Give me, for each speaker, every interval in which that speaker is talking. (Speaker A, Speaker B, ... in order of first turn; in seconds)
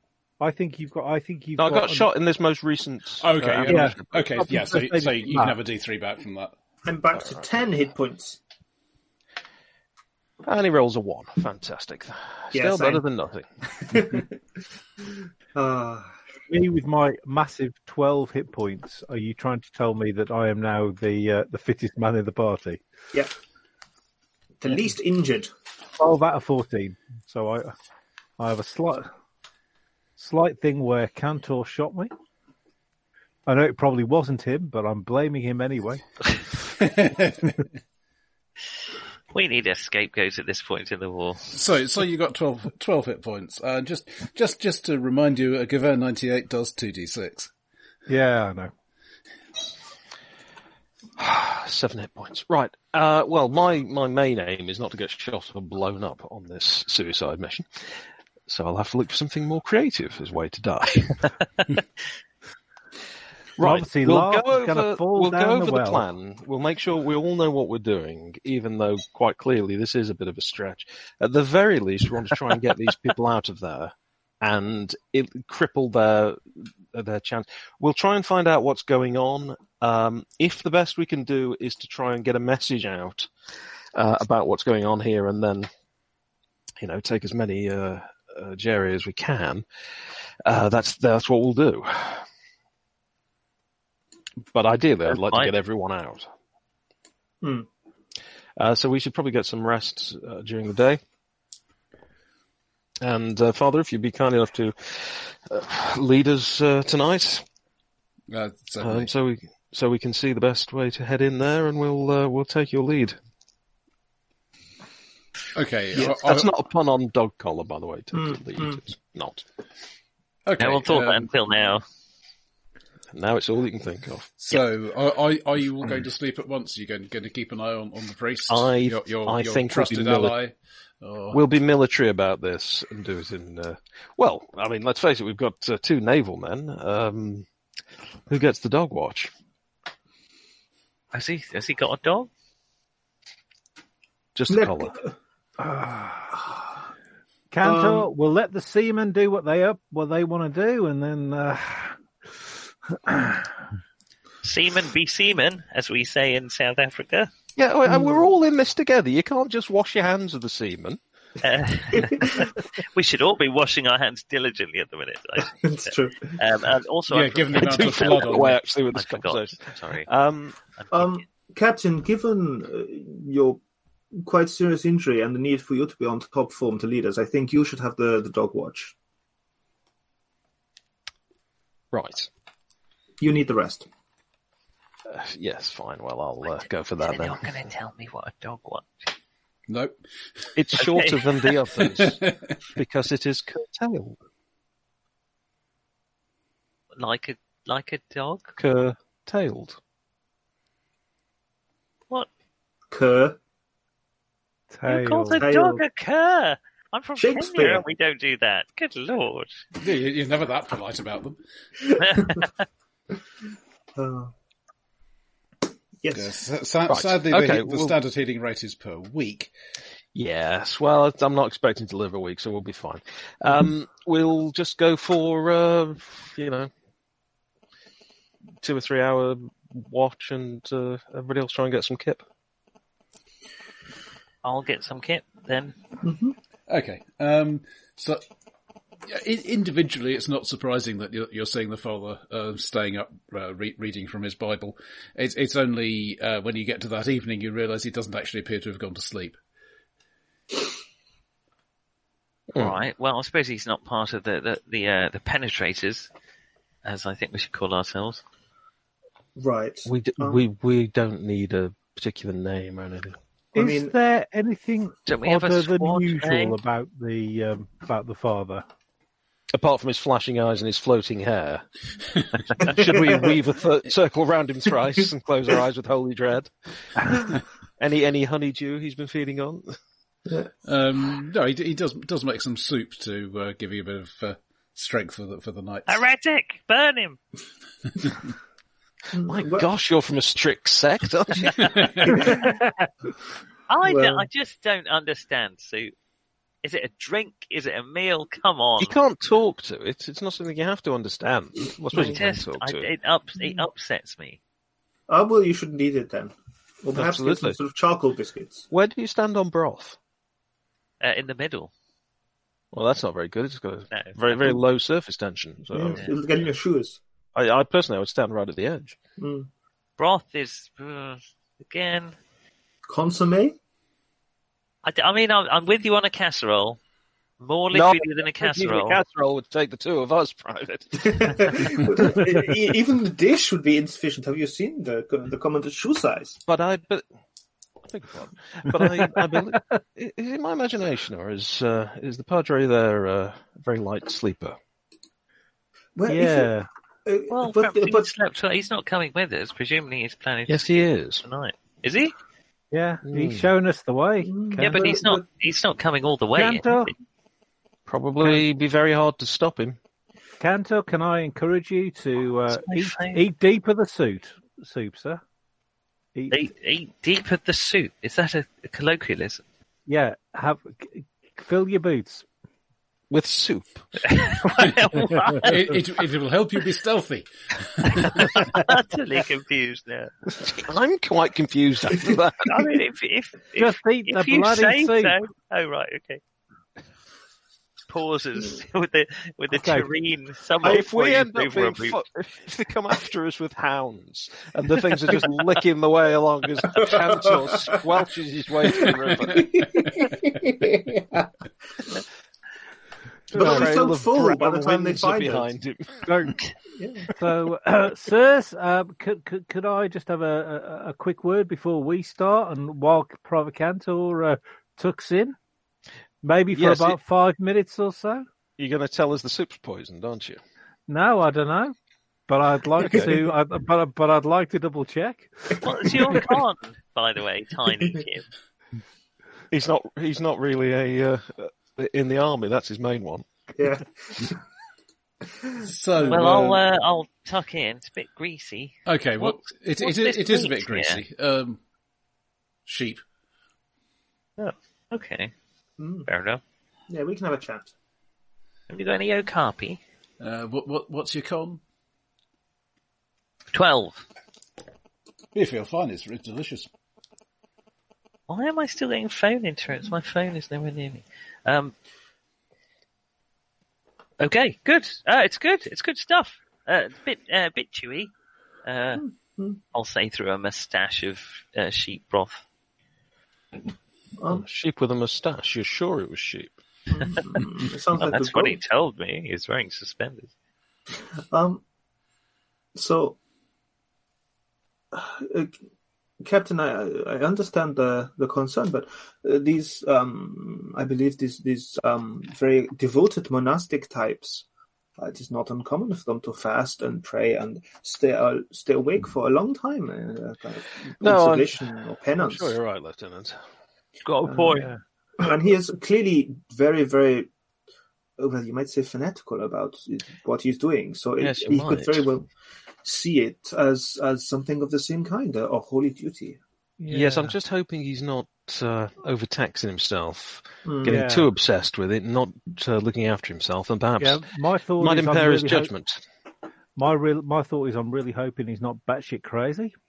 Speaker A: 0.4-2.1, 3.7-5.6, 16.5-22.8, 26.0-27.7, 28.4-29.1, 30.2-32.1, 33.5-36.0, 48.1-48.7, 63.6-66.0, 145.6-146.4, 147.5-152.0, 152.9-153.5, 204.7-205.5, 263.5-268.6, 339.2-339.6, 346.1-346.7, 352.7-355.0, 356.4-356.9, 360.4-365.2, 366.1-366.4, 369.9-372.3, 383.6-385.2, 389.5-389.9, 403.3-403.9, 406.1-406.4, 407.1-415.4, 416.2-418.2, 420.9-421.8, 422.3-426.2, 516.8-517.4, 520.8-521.3, 524.0-525.7, 526.8-529.7
Speaker B: 1.6-4.4, 10.4-13.5, 51.2-61.2, 63.6-83.3, 84.0-85.7, 86.8-89.6, 90.5-92.3, 94.5-96.3, 98.6-101.0, 103.0-107.5, 108.8-113.2, 115.9-119.5, 123.1-124.3, 128.5-130.4, 131.3-137.5, 138.3-139.3, 144.3-145.0, 157.6-161.0, 167.6-170.6, 181.9-182.3, 185.1-187.5, 190.6-192.2, 192.8-194.2, 198.6-199.8, 216.9-218.0, 220.2-226.7, 228.6-232.2, 252.5-252.8, 259.9-263.2, 269.5-271.6, 272.5-276.5, 277.8-279.8, 289.2-292.1, 298.8-302.9, 306.9-307.6, 308.7-310.0, 312.7-316.1, 317.4-319.0, 327.7-331.9, 336.5-337.1, 337.8-344.6, 350.5-351.2, 353.1-353.5, 357.9-359.8, 373.1-373.9, 380.4-382.5, 390.6-399.5, 403.3-406.2, 416.5-417.0, 418.6-420.4, 429.5-433.3, 474.3-476.6, 501.0-503.4, 511.2-512.1, 516.9-524.2, 524.8-526.0
Speaker C: 3.2-6.5, 36.8-37.6, 41.5-47.5, 108.3-109.1, 115.5-116.5, 120.5-121.3, 124.4-131.4, 167.1-168.6, 189.7-190.0, 191.8-192.5, 209.8-211.4, 216.1-219.5, 236.7-238.2, 239.1-249.4, 280.6-286.0, 291.6-292.2, 375.3-378.5, 435.6-436.6, 438.9-441.6, 442.7-443.0, 450.2-451.6, 455.4-456.7
Speaker D: 6.8-8.4, 12.5-13.0, 13.9-14.3, 15.5-16.1, 24.6-25.5, 97.4-97.7, 118.1-118.8, 144.5-145.1, 147.6-148.1, 157.9-158.2, 161.9-162.5, 165.5-166.3, 170.9-173.6, 174.2-178.9, 183.2-183.9, 202.9-203.4, 205.4-205.8, 207.2-207.8, 211.8-212.4, 214.0-214.3, 216.0-216.4, 236.0-236.4, 259.4-260.4, 263.5-263.9, 272.7-273.3, 289.1-289.7, 292.1-292.6, 293.9-294.3, 301.9-302.2, 305.1-308.7, 315.7-317.0, 319.2-319.5, 322.9-323.6, 331.0-336.4, 346.0-346.5, 347.1-348.1, 354.2-355.2, 396.8-397.2, 399.2-401.3, 403.3-405.5, 406.8-407.1, 433.6-434.4, 445.8-446.1, 446.9-447.7, 468.9-469.6, 474.2-474.4, 476.9-478.6, 481.3-481.6, 482.8-483.2, 484.9-485.5, 486.2-494.4, 495.0-502.6, 504.2-504.6, 505.2-507.3, 508.2-512.3, 512.8-516.4, 520.6-521.0
Speaker E: 39.3-41.5, 95.1-95.5, 120.6-121.8, 141.1-142.3, 154.4-157.3, 161.4-170.1, 170.8-171.2, 187.0-189.0, 190.8-191.5, 197.0-198.6, 204.9-209.6, 212.1-212.5, 234.4-235.8, 252.6-256.1, 256.8-258.2, 265.1-266.6, 285.9-287.2, 293.7-295.9, 296.6-298.9, 301.9-304.4, 311.0-311.7, 313.9-314.6, 320.0-322.1, 324.8-326.8, 327.4-329.0, 347.3-352.1, 354.6-356.9, 362.5-363.2, 366.3-369.4, 374.0-375.7, 377.9-380.1, 382.4-386.2, 387.9-392.0, 425.6-428.3, 436.1-441.0, 444.4-445.3, 446.1-446.4, 448.7-449.8, 453.5-454.0, 458.3-461.7, 464.2-468.1, 468.6-469.1, 469.7-472.4, 477.9-480.3, 504.1-504.7